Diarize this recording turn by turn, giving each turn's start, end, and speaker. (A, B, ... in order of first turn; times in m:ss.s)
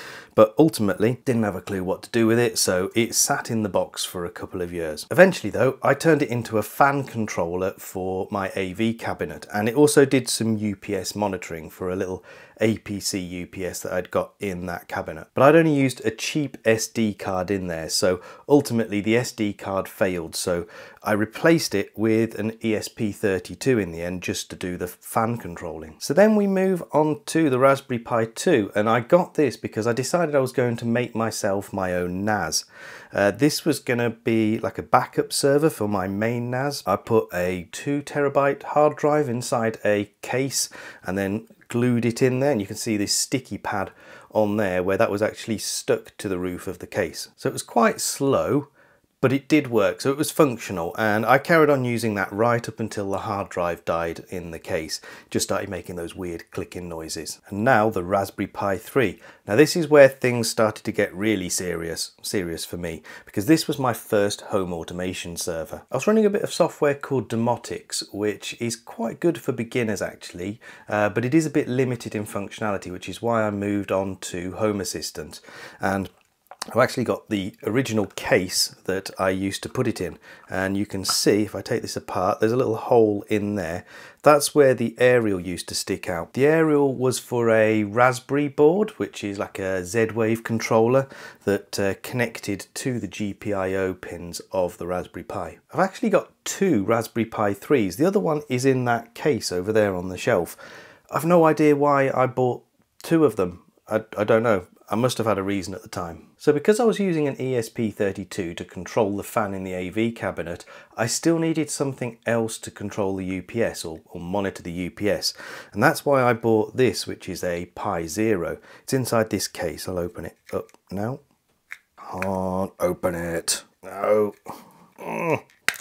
0:00.4-0:48.7 A
0:49.2-1:16.1 A
1:16.7-1:40.6 A
1:41.1-2:01.2 A
2:02.0-2:05.4 A